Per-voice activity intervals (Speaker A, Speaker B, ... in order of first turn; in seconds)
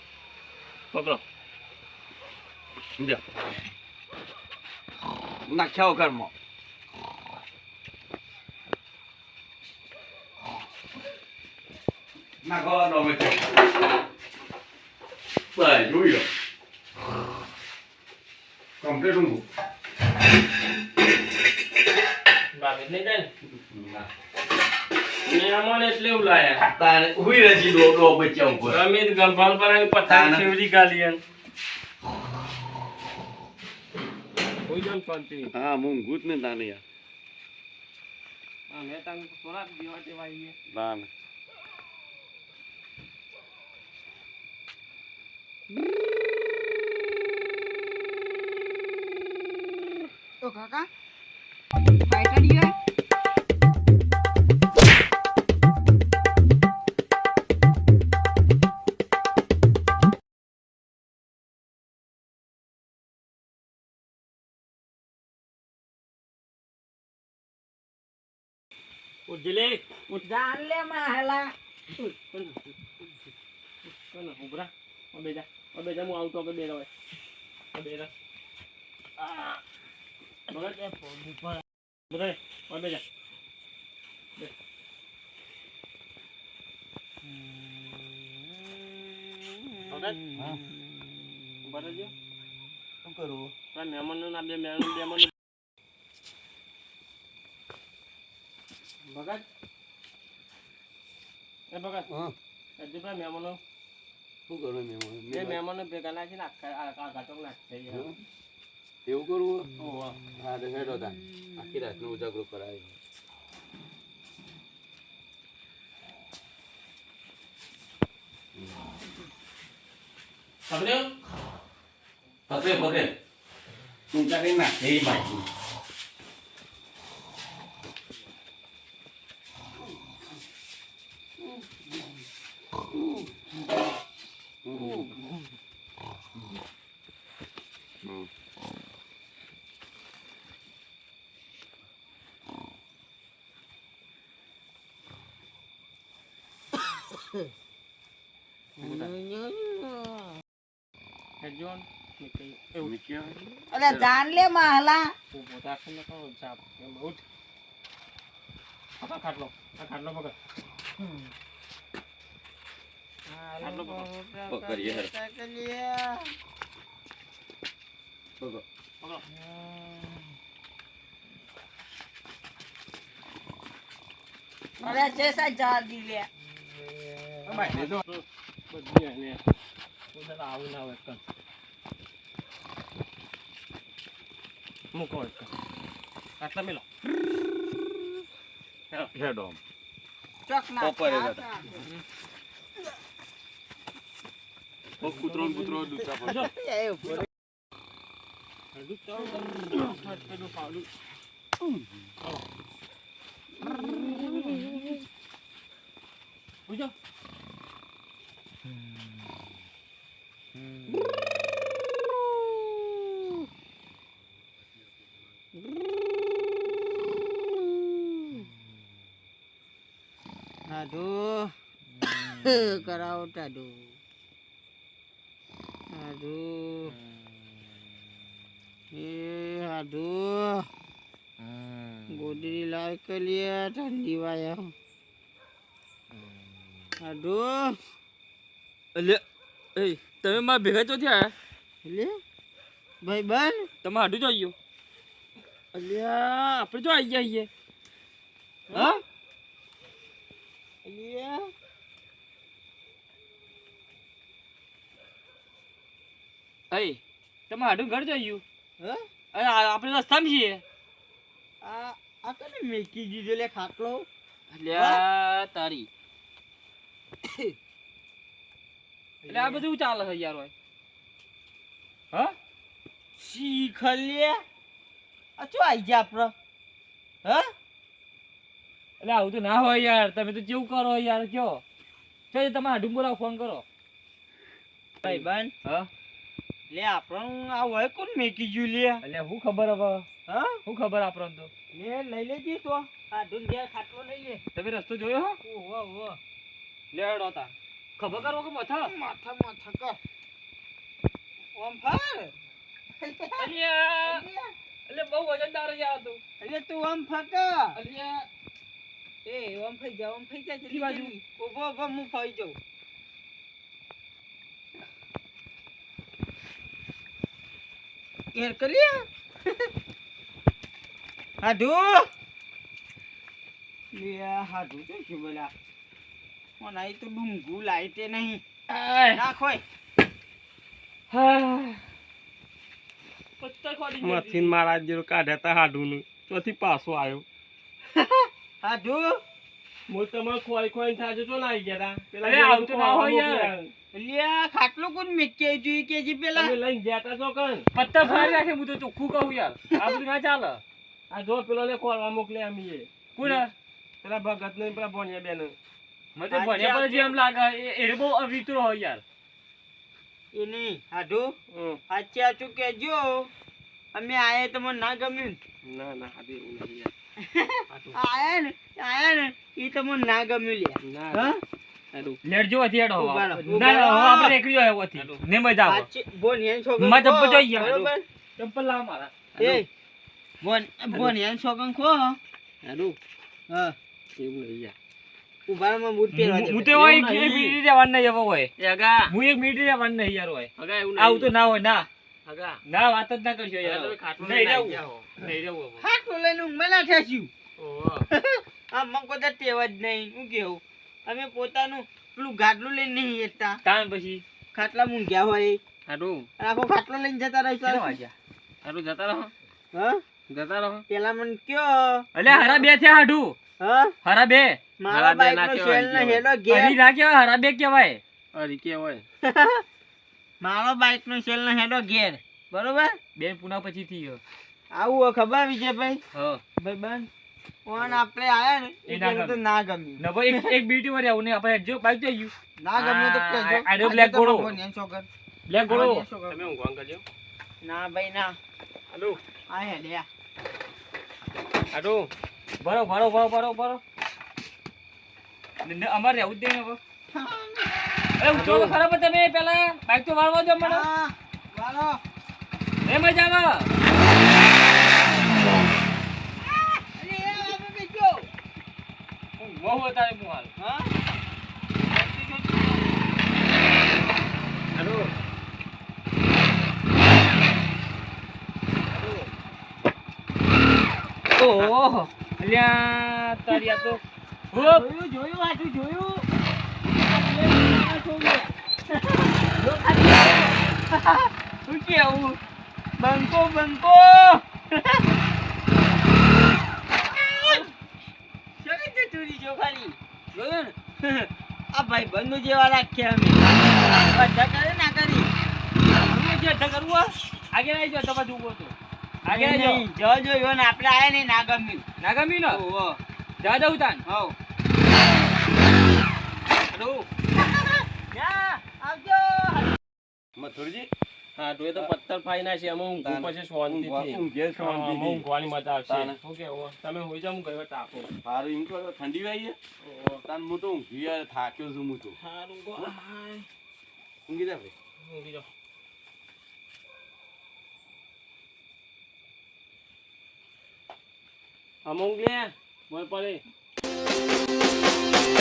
Speaker A: 0.9-1.2, 22.5-23.3, 25.2-26.6, 28.6-31.2, 34.6-35.5, 38.7-40.5, 69.2-70.0, 72.0-72.7, 73.8-76.9, 77.7-78.1, 80.5-80.8, 82.1-83.0, 89.9-90.2, 91.6-92.1, 93.7-95.3, 99.0-99.4, 101.7-102.1, 102.8-103.6, 105.3-108.1, 109.8-110.2, 148.8-149.1, 151.4-152.9, 155.3-157.2, 159.0-160.3, 163.6-164.1, 177.5-179.4, 180.1-181.2, 184.9-185.5, 186.4-186.8, 191.7-192.0, 195.0-196.5, 198.7-200.9, 206.7-206.9, 334.0-337.2, 339.9-343.7, 346.3-347.7, 351.1-353.4, 354.0-355.5, 361.5-361.8, 365.6-366.9, 367.7-368.0, 370.8-371.4, 371.9-372.2, 373.4-373.8, 374.9-375.2, 382.6-383.0, 384.2-384.7, 388.6-389.1, 390.6-391.3, 392.2-392.6, 393.6-395.2, 397.6-398.1, 405.9-406.2, 408.6-409.3, 410.3-410.8, 414.9-416.3, 418.3-419.0, 436.3-437.0, 438.9-439.2, 441.7-442.1, 448.3-448.7, 464.8-465.1, 468.9-469.3, 511.4-518.1, 519.8-520.2, 522.2-523.4, 525.0-525.4, 531.8-533.4
Speaker B: 5.5-6.3, 12.4-13.7, 15.5-16.3, 18.8-19.4, 23.6-24.1, 26.6-28.8, 30.1-30.5, 35.5-36.8, 40.7-41.1, 90.3-90.6, 93.0-93.5, 102.1-102.3, 104.5-105.6, 107.9-108.2, 109.0-109.7, 110.3-112.9, 120.7-121.1, 122.5-123.1, 124.1-125.5, 134.6-135.1, 138.0-138.3, 152.8-154.1, 164.5-165.1, 168.4-168.6, 177.5-178.0, 189.1-189.6, 190.8-191.4, 195.0-196.5, 201.6-201.8, 510.4-510.9, 513.0-515.2, 515.9-516.2, 518.2-519.6, 520.2-522.2, 524.3-524.7
Speaker C: 50.4-50.9, 52.1-52.7, 70.1-71.5, 153.7-155.1, 174.8-176.3, 190.5-191.7
Speaker D: 80.5-81.6, 87.2-88.3, 89.9-90.5, 148.8-149.8, 163.3-166.3, 169.3-170.2, 176.8-177.7, 196.5-197.1, 203.7-204.6, 220.7-221.5, 222.4-223.8, 225.9-226.9, 228.9-230.7, 232.1-234.7, 237.0-237.8, 241.8-242.2, 243.0-243.7, 248.7-248.9, 250.8-251.5, 258.8-259.1, 261.6-264.1, 264.7-265.0, 269.2-269.6, 273.2-274.4, 275.4-276.3, 285.0-285.5, 286.7-289.0, 290.3-290.6, 291.7-294.4, 295.4-296.2, 298.8-300.0, 301.5-302.3, 303.0-304.5, 306.4-307.8, 309.2-312.6, 318.3-319.0, 321.4-322.1, 323.9-325.5, 326.6-328.4, 329.1-329.6, 337.9-339.1, 343.9-346.6, 348.0-348.4, 356.3-357.1, 360.3-361.3, 361.9-363.3, 363.9-365.4, 367.2-371.4, 373.0-374.4, 375.6-378.0, 379.4-379.7, 380.4-382.2, 383.5-383.7, 385.5-387.6, 395.8-397.3, 398.1-403.6, 404.5-405.6, 406.4-408.0, 409.7-410.0, 410.9-412.6, 413.6-413.9, 414.8-416.8, 419.2-419.6, 420.4-423.0, 424.7-426.0, 426.6-427.1, 427.6-430.5, 432.6-435.1, 435.7-436.5, 437.6-438.4, 439.5-440.1, 447.1-447.7, 448.3-448.7, 450.6-452.0, 456.8-458.3, 460.6-460.9, 461.9-462.8, 474.5-476.2, 477.1-482.4, 483.0-485.0, 487.1-487.7, 488.6-495.3, 499.2-501.8, 502.5-503.0, 504.1-504.3, 508.1-509.8
Speaker E: 222.0-222.7, 231.4-232.2, 238.9-239.2, 239.7-241.3, 243.8-244.5, 245.7-247.5, 248.7-249.0, 256.7-258.4, 259.3-260.6, 264.5-265.9, 269.3-270.5, 279.0-281.6, 282.3-283.6, 285.0-285.9, 289.0-290.1, 290.6-291.5, 294.6-295.4, 296.9-298.9, 303.4-304.2, 304.9-306.2, 307.8-308.3, 310.7-311.1, 328.7-329.2, 331.1-331.8, 333.4-334.5, 342.2-343.5, 347.7-350.6, 353.1-353.5, 356.1-359.0, 372.2-375.9, 376.8-379.1, 386.1-388.5, 389.1-391.9, 392.7-395.8, 403.6-404.2, 407.6-408.1, 412.1-413.4, 414.0-414.6, 416.5-418.0, 423.1-424.2, 426.1-426.4, 428.9-429.4, 430.0-434.5, 435.5-436.1, 442.6-443.8, 445.6-446.8, 448.2-450.9, 452.8-453.7, 459.4-460.5, 471.3-474.0, 474.5-474.9, 496.1-498.7, 499.2-499.8, 502.0-502.6, 503.4-504.0, 506.7-507.1